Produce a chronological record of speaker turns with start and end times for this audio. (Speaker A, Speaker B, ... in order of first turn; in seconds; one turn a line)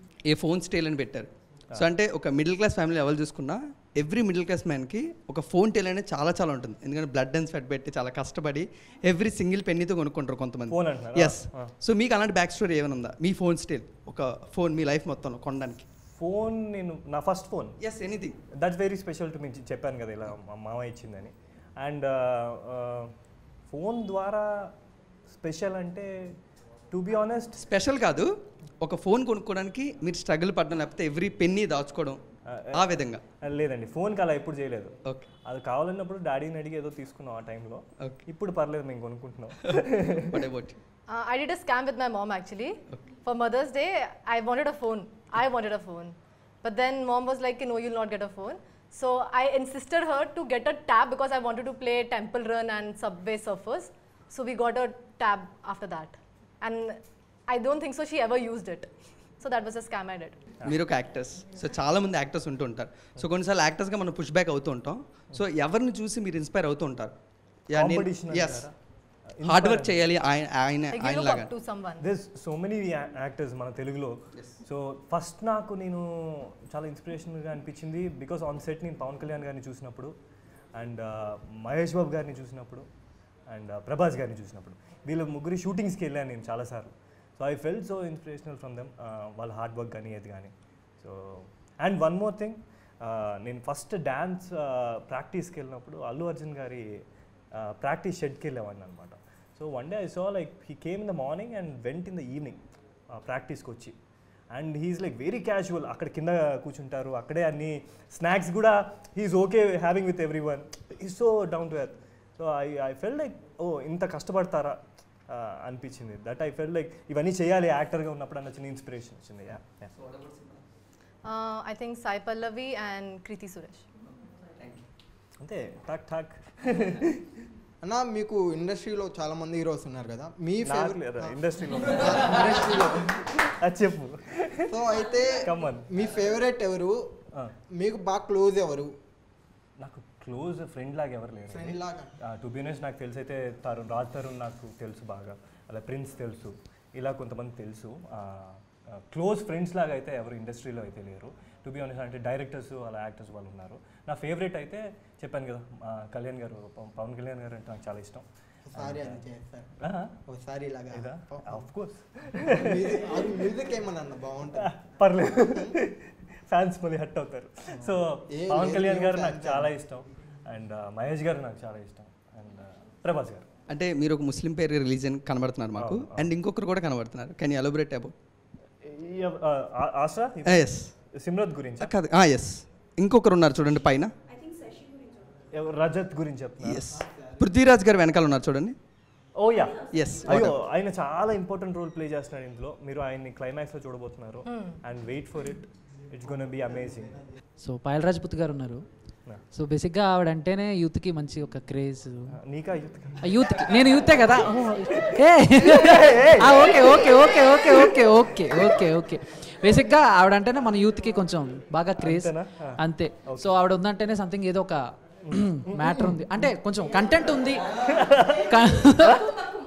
Speaker A: 0.2-15.8
Speaker B: 10.7-11.7
Speaker B: 16.1-17.8
Speaker A: 17.8-18.3
Speaker B: 18.5-24.7
Speaker B: 25.3-26.1
Speaker B: 26.9-27.7
Speaker A: 27.7-28.3
Speaker A: 28.8-32.2
Speaker B: 32.4-34.9
Speaker A: 32.7-33.2
Speaker B: 35.4-40.4
Speaker A: 40.3-40.8
Speaker C: 41.1-60.6
Speaker A: 60.6-71.5
Speaker B: 67.7-70.0
Speaker C: 70.9-72.1
Speaker B: 72.0-80.1
Speaker A: 74.3-74.6
Speaker B: 80.7-82.8
Speaker B: 83.5-96.8
Speaker B: 97.5-103.9
Speaker B: 104.5-119.9
Speaker C: 121.2-123.9
Speaker B: 125.4-127.2
Speaker D: 127.8-133.1
Speaker B: 130.7-132.8
Speaker B: 133.4-134.7
Speaker D: 134.7-137.0
Speaker B: 135.4-135.8
Speaker D: 137.7-138.9
Speaker B: 139.8-158.2
Speaker D: 141.5-142.2
Speaker D: 158.7-161.7
Speaker B: 158.7-159.2
Speaker B: 159.8-160.1
Speaker B: 160.9-163.0
Speaker D: 162.5-164.7
Speaker B: 164.6-173.5
Speaker D: 167.7-169.7
Speaker A: 173.7-178.1
Speaker B: 175.7-176.3
Speaker B: 178.8-181.9
Speaker A: 180.4-180.9
Speaker A: 181.8-184.1
Speaker B: 185.5-186.9
Speaker A: 186.6-188.8
Speaker B: 189.3-197.3
Speaker A: 189.9-190.6
Speaker C: 194.4-194.8
Speaker E: 197.6-202.3
Speaker B: 202.3-209.1
Speaker E: 203.2-219.4
Speaker B: 212.0-213.6
Speaker B: 215.2-216.1
Speaker B: 217.8-218.5
Speaker B: 219.0-219.3